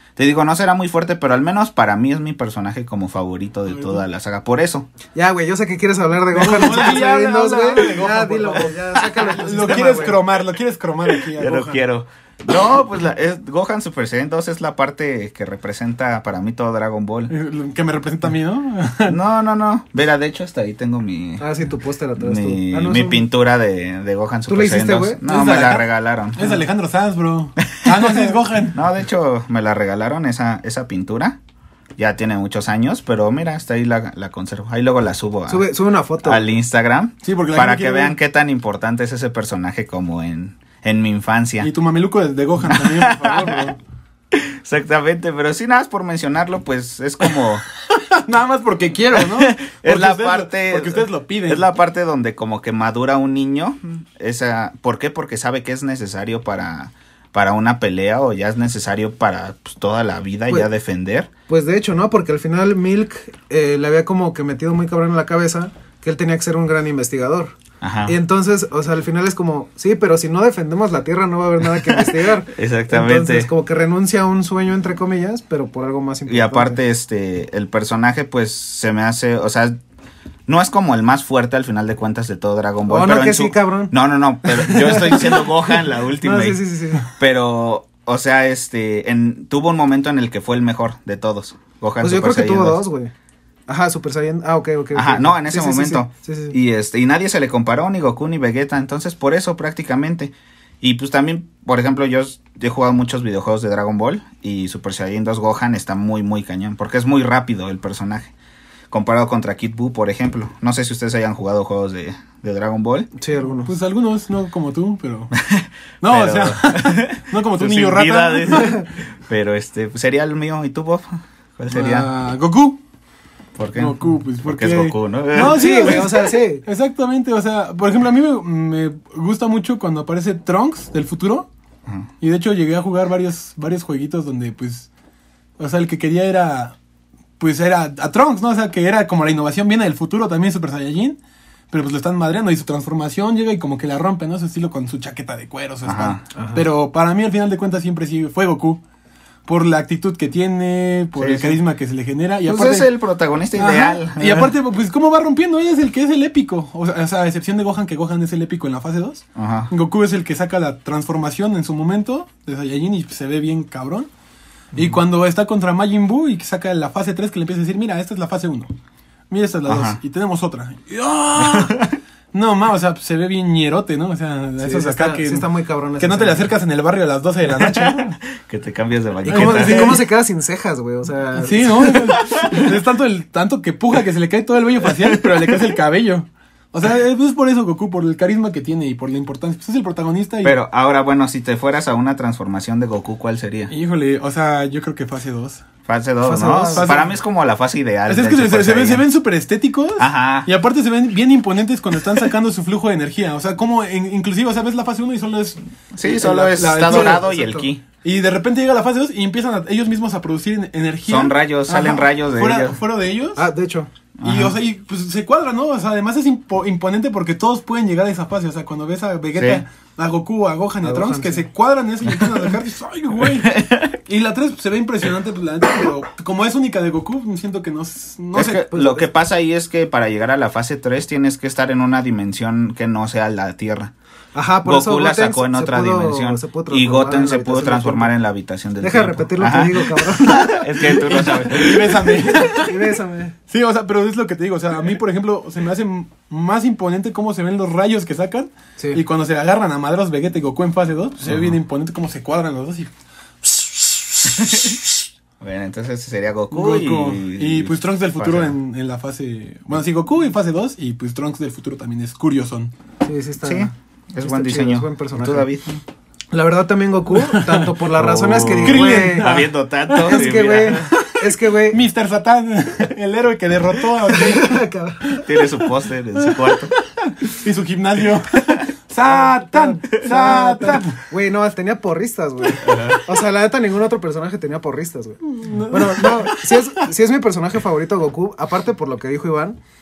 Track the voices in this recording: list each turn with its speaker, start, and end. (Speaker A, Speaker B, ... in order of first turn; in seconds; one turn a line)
Speaker A: 0.2-4.9
Speaker B: 3.7-4.0
Speaker C: 5.2-10.2
Speaker B: 6.3-11.8
Speaker A: 11.2-17.3
Speaker B: 17.3-19.2
Speaker A: 19.1-21.4
Speaker C: 21.4-23.2
Speaker A: 22.2-26.6
Speaker C: 24.5-25.2
Speaker B: 25.3-28.8
Speaker A: 27.8-31.4
Speaker A: 32.0-35.7
Speaker C: 35.5-36.4
Speaker A: 36.2-41.7
Speaker B: 37.2-38.2
Speaker B: 41.6-43.8
Speaker A: 42.6-43.7
Speaker A: 44.3-47.6
Speaker B: 47.9-51.7
Speaker A: 49.1-61.3
Speaker C: 61.5-67.5
Speaker A: 67.8-68.2
Speaker C: 68.1-76.8
Speaker A: 71.9-73.5
Speaker A: 76.3-79.8
Speaker A: 80.5-92.8
Speaker C: 82.9-83.9
Speaker C: 84.5-87.1
Speaker C: 92.0-93.1
Speaker C: 93.7-96.6
Speaker A: 94.9-108.3
Speaker A: 108.9-113.1
Speaker C: 113.2-113.7
Speaker B: 113.7-115.3
Speaker A: 115.4-122.1
Speaker B: 116.0-118.8
Speaker B: 121.7-122.8
Speaker A: 123.6-126.1
Speaker B: 123.8-131.5
Speaker C: 125.3-126.6
Speaker B: 132.2-134.9
Speaker B: 135.6-136.8
Speaker B: 137.4-141.2
Speaker B: 141.7-148.8
Speaker A: 145.8-146.2
Speaker C: 146.3-146.6
Speaker B: 149.5-152.9
Speaker A: 151.2-151.6
Speaker A: 152.5-154.5
Speaker B: 153.6-164.1
Speaker A: 159.4-159.7
Speaker B: 164.8-168.7
Speaker B: 169.3-171.8
Speaker A: 169.7-170.0
Speaker A: 171.4-171.9
Speaker B: 172.3-175.5
Speaker C: 174.6-176.5
Speaker B: 176.0-178.2
Speaker A: 177.5-180.0
Speaker B: 179.3-180.1
Speaker C: 179.3-182.1
Speaker B: 181.4-190.6
Speaker A: 182.1-182.8
Speaker A: 185.0-185.7
Speaker A: 190.4-193.7
Speaker B: 193.7-195.6
Speaker A: 195.9-199.0
Speaker C: 196.2-197.0
Speaker B: 196.7-197.1
Speaker B: 198.1-213.5
Speaker A: 200.0-200.5
Speaker A: 205.9-207.8
Speaker C: 206.8-207.3
Speaker A: 211.1-212.8
Speaker C: 213.4-213.9
Speaker A: 214.2-214.6
Speaker B: 214.2-228.8
Speaker A: 219.4-219.6
Speaker C: 220.8-221.5
Speaker A: 223.4-223.9
Speaker A: 228.3-233.9
Speaker C: 234.3-238.1
Speaker A: 234.7-242.4
Speaker C: 238.8-241.4
Speaker B: 241.0-242.7
Speaker C: 242.3-243.4
Speaker B: 243.5-252.9
Speaker A: 251.2-251.6
Speaker B: 253.4-254.6
Speaker A: 254.4-254.8
Speaker A: 255.4-258.5
Speaker B: 256.5-262.7
Speaker C: 263.0-265.5
Speaker A: 263.4-265.8
Speaker C: 266.3-269.3
Speaker B: 267.2-267.7
Speaker A: 268.0-270.9
Speaker B: 268.6-275.7
Speaker C: 270.0-271.8
Speaker C: 274.1-275.2
Speaker A: 275.2-276.7
Speaker B: 276.2-281.0
Speaker C: 279.1-289.6
Speaker A: 282.6-283.0
Speaker B: 285.3-286.9